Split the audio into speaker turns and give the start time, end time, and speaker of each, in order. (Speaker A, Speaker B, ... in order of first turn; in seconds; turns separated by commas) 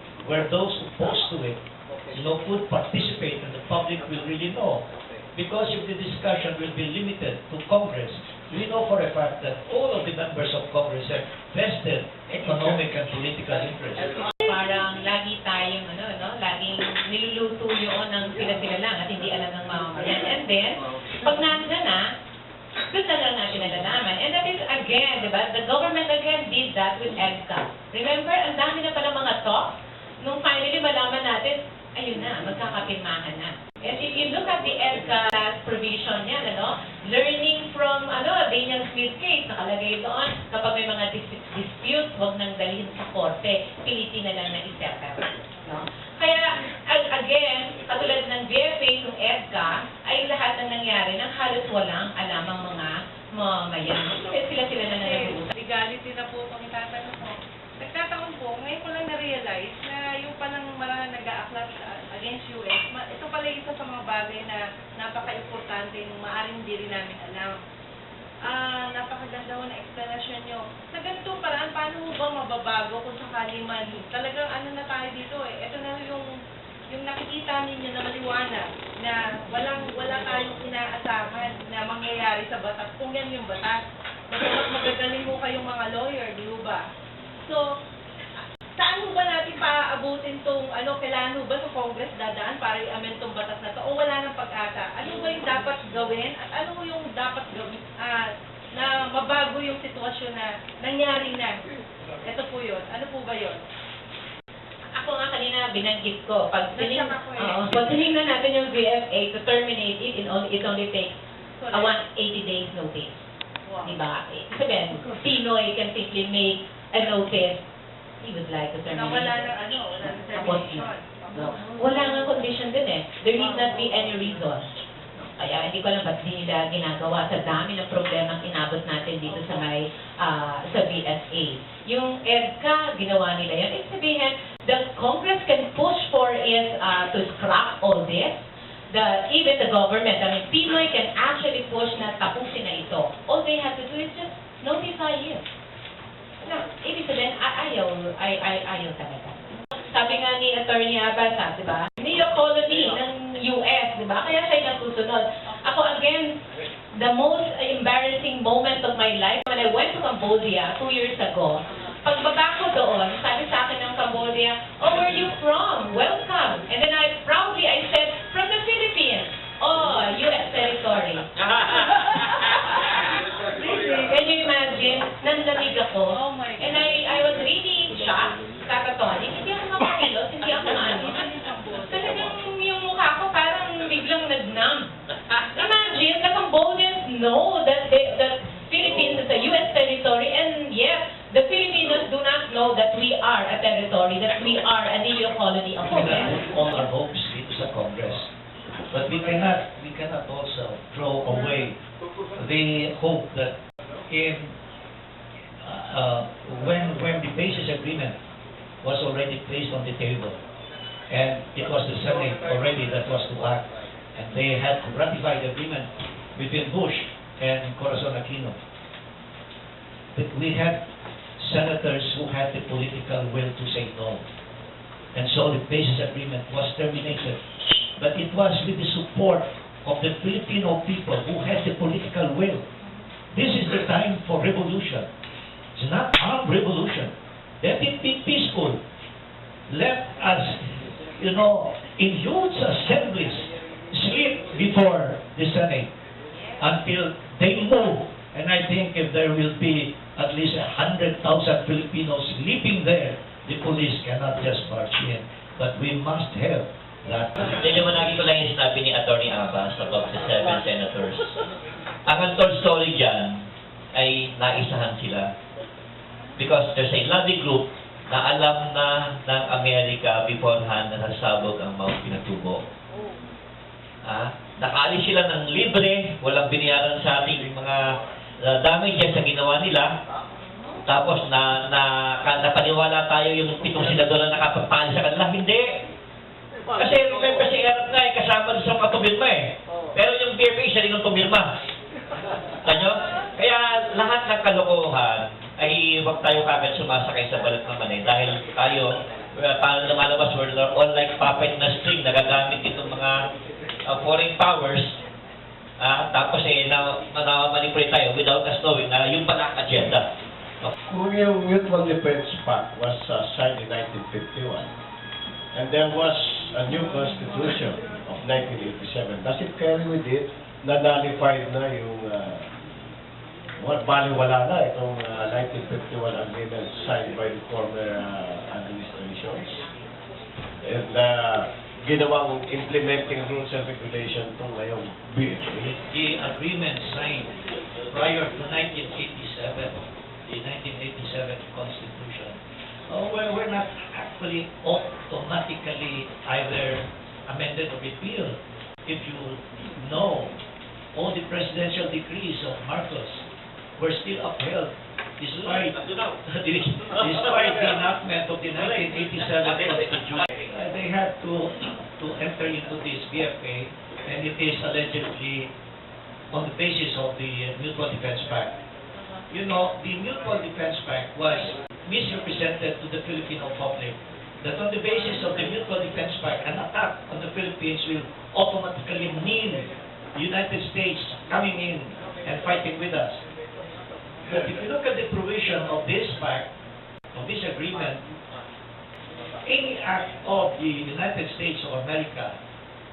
Speaker A: 0.2-14.2, Speaker B: 14.5-22.0, Speaker B: 22.9-55.5, Speaker C: 55.0-67.6, Speaker C: 68.5-76.2, Speaker C: 76.9-86.8, Speaker C: 88.8-101.6, Speaker C: 102.3-103.6, Speaker B: 105.0-111.2, Speaker C: 106.8-108.1, Speaker C: 111.6-112.0, Speaker B: 111.7-113.3, Speaker C: 113.7-114.0, Speaker B: 113.8-117.7, Speaker B: 118.2-119.4, Speaker C: 118.9-122.4, Speaker B: 120.3-124.7, Speaker C: 123.4-123.9, Speaker B: 125.4-145.5, Speaker B: 146.4-156.4, Speaker B: 157.0-171.3, Speaker B: 173.6-181.3, Speaker C: 176.1-177.1, Speaker C: 180.5-182.4, Speaker B: 181.9-184.9, Speaker B: 185.5-196.4, Speaker A: 195.8-198.3, Speaker A: 198.9-201.8, Speaker A: 202.4-204.6, Speaker A: 205.6-208.2, Speaker A: 208.8-210.4, Speaker A: 211.1-218.6, Speaker A: 220.1-220.9, Speaker A: 221.4-224.2, Speaker A: 225.1-227.4, Speaker A: 228.0-232.7, Speaker A: 233.3-235.1, Speaker A: 235.8-238.8, Speaker A: 239.7-245.9, Speaker A: 246.6-257.4, Speaker D: 257.4-261.3, Speaker D: 262.1-265.3, Speaker D: 266.4-272.6, Speaker D: 274.1-277.8, Speaker D: 278.4-279.9, Speaker D: 280.9-285.6, Speaker D: 286.8-291.5, Speaker D: 292.6-303.2, Speaker D: 303.9-304.9, Speaker D: 305.8-310.0, Speaker E: 310.9-314.7, Speaker E: 315.6-322.5, Speaker E: 323.6-329.6, Speaker E: 330.7-335.7, Speaker A: 335.7-337.3, Speaker A: 337.9-342.4, Speaker A: 342.9-350.4, Speaker A: 350.9-353.2, Speaker A: 353.8-365.5, Speaker A: 366.3-368.6, Speaker A: 369.3-383.2, Speaker A: 384.3-386.5, Speaker A: 387.1-388.1, Speaker A: 389.4-392.4